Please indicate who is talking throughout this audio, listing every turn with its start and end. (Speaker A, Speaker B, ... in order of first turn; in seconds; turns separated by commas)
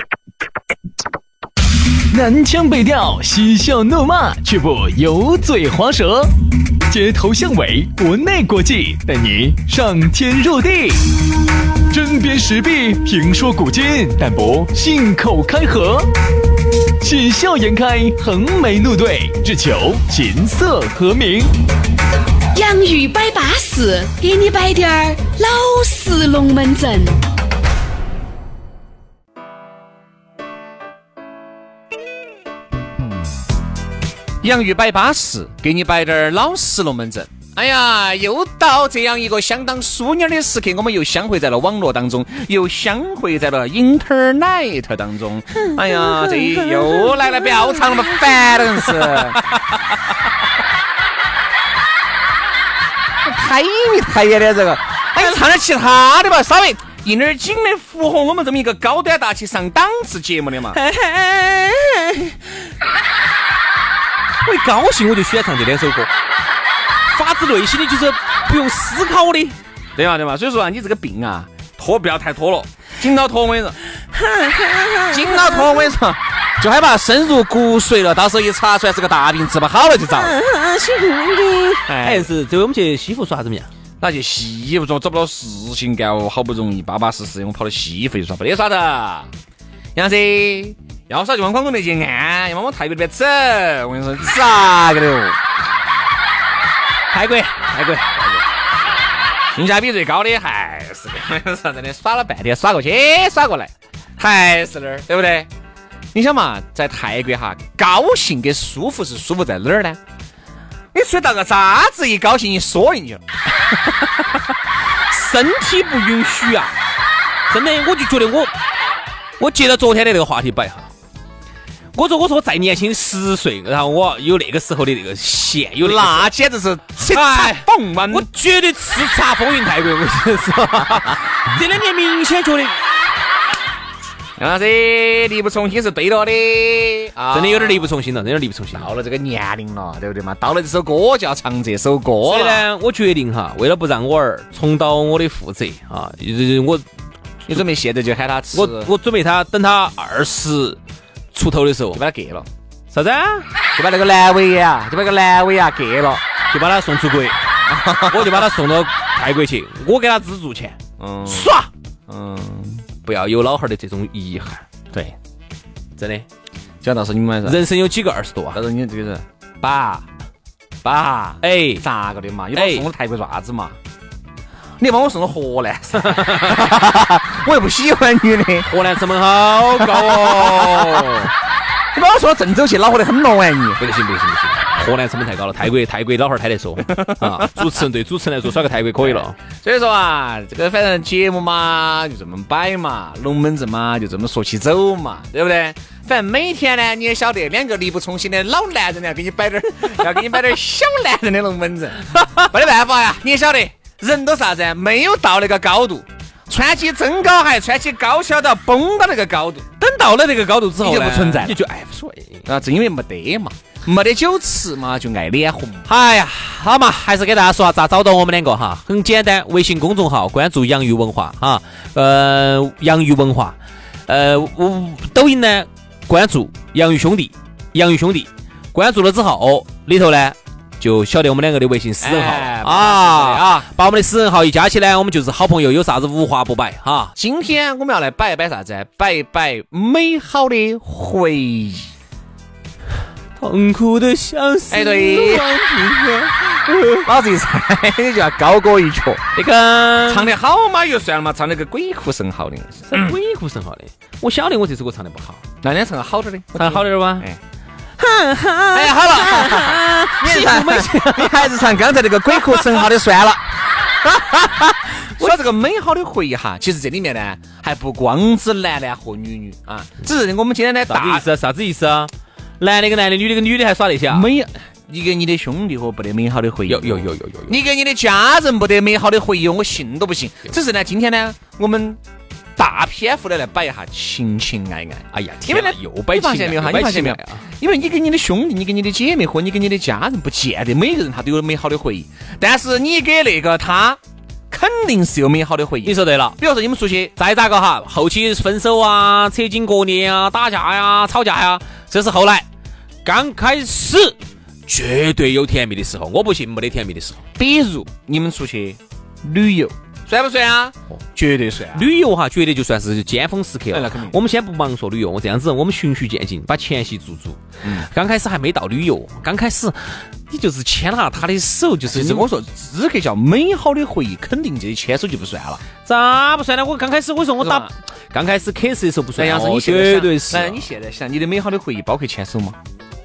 Speaker A: 2.1-6.3, Speaker A: 6.9-11.1, Speaker A: 11.9-16.1, Speaker A: 17.0-21.5, Speaker B: 22.5-27.2, Speaker C: 34.4-49.5, Speaker C: 53.2-60.8, Speaker D: 60.7-62.4, Speaker D: 64.4-66.1, Speaker D: 67.1-69.6, Speaker C: 70.0-73.8, Speaker D: 74.2-75.3, Speaker C: 75.1-80.4, Speaker D: 80.4-83.7, Speaker C: 81.9-82.3, Speaker C: 84.0-89.3, Speaker C: 89.9-95.4, Speaker D: 97.1-98.4, Speaker C: 99.5-105.5, Speaker C: 106.1-110.0, Speaker C: 110.9-113.2, Speaker D: 115.1-116.7, Speaker D: 117.5-118.5, Speaker D: 119.4-120.9, Speaker D: 121.9-126.3, Speaker C: 125.8-128.3, Speaker D: 127.0-132.8, Speaker C: 134.4-137.9, Speaker D: 137.3-138.9, Speaker C: 138.7-142.6, Speaker D: 142.2-146.8, Speaker C: 147.4-148.9, Speaker D: 148.5-150.8, Speaker D: 151.3-152.0, Speaker C: 151.9-152.5, Speaker D: 152.9-153.5, Speaker C: 153.8-156.2, Speaker D: 156.5-157.4, Speaker C: 157.7-158.5, Speaker D: 158.0-161.7, Speaker C: 161.0-161.5, Speaker C: 162.1-162.8, Speaker D: 163.0-164.6, Speaker D: 166.0-166.2, Speaker C: 166.8-167.6, Speaker D: 167.4-168.6, Speaker C: 168.5-170.0, Speaker C: 170.8-173.8, Speaker D: 171.4-171.8, Speaker D: 172.5-172.9, Speaker C: 174.8-178.7, Speaker D: 176.1-176.6, Speaker D: 178.7-181.3, Speaker C: 179.8-181.3, Speaker C: 181.9-183.8, Speaker D: 183.8-189.3, Speaker C: 186.9-187.7, Speaker C: 189.0-209.7, Speaker D: 209.8-212.4, Speaker C: 210.8-211.6, Speaker C: 212.4-215.9, Speaker D: 215.9-223.6, Speaker D: 224.1-237.1, Speaker C: 232.0-233.7, Speaker C: 237.2-241.9, Speaker D: 243.4-247.1, Speaker C: 244.7-245.8, Speaker C: 247.0-249.2, Speaker D: 249.3-250.3, Speaker C: 250.1-253.2, Speaker D: 252.9-255.4, Speaker C: 255.6-257.4, Speaker D: 256.6-257.3, Speaker D: 258.0-261.5, Speaker C: 258.7-271.2, Speaker D: 270.9-274.3, Speaker C: 274.1-282.0, Speaker D: 276.7-277.6, Speaker C: 282.6-297.1, Speaker D: 285.1-287.4, Speaker D: 295.8-296.4, Speaker D: 297.1-302.4, Speaker D: 303.0-307.2, Speaker C: 307.4-311.9, Speaker D: 311.7-322.3, Speaker C: 313.7-314.1, Speaker C: 321.9-325.6, Speaker D: 325.8-330.7, Speaker C: 327.4-327.7, Speaker C: 329.1-332.6